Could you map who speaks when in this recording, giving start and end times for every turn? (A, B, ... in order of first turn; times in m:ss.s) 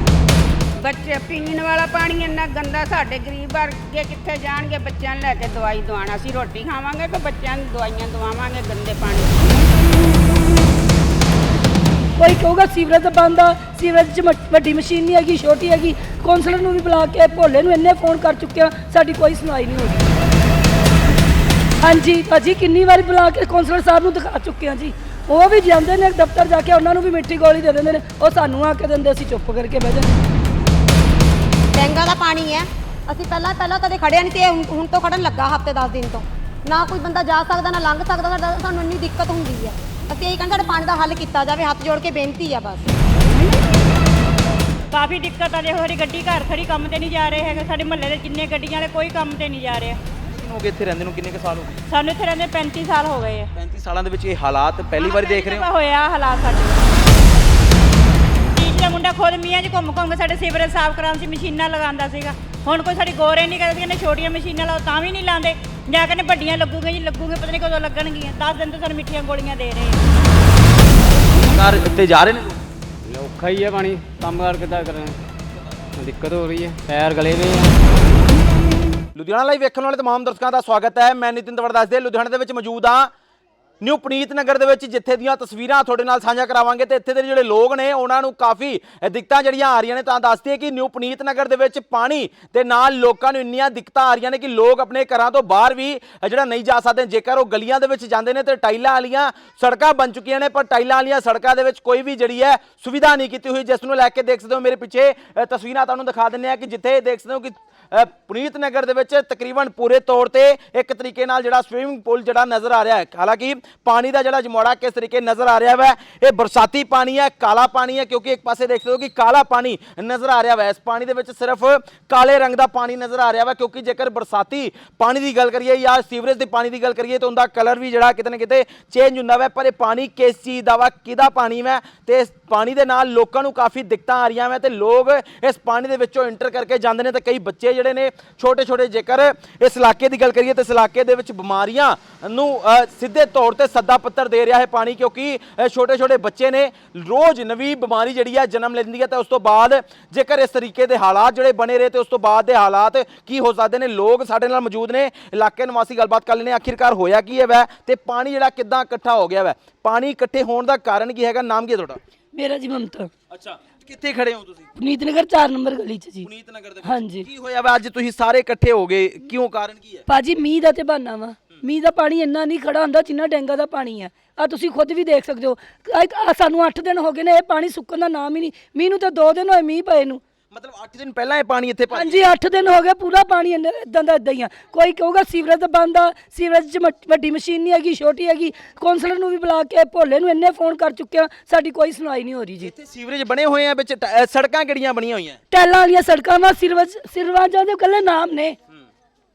0:00.8-0:09.6 A
0:12.2-0:20.1 B
0:21.8-0:30.2 B
0:31.8-0:42.9 C
0:44.9-0:50.0 D
0:50.2-0:51.8 E
0:51.9-0:53.5 D
0:53.6-0:55.7 E
0:55.0-0:56.9 D
0:58.6-1:10.0 D
1:11.4-1:12.6 E
1:13.0-1:15.2 F
1:16.0-1:17.7 F
1:19.1-1:23.1 E
1:23.8-2:42.0 E
2:42.3-2:43.1 B
2:43.3-2:44.7 E
2:44.8-2:46.3 B
2:46.2-2:50.0 E
2:46.8-2:47.3 B
2:50.1-3:00.2 B
3:00.5-3:02.3 E
3:01.9-3:12.7 B
3:12.6-3:15.4 E
3:15.5-3:18.6 B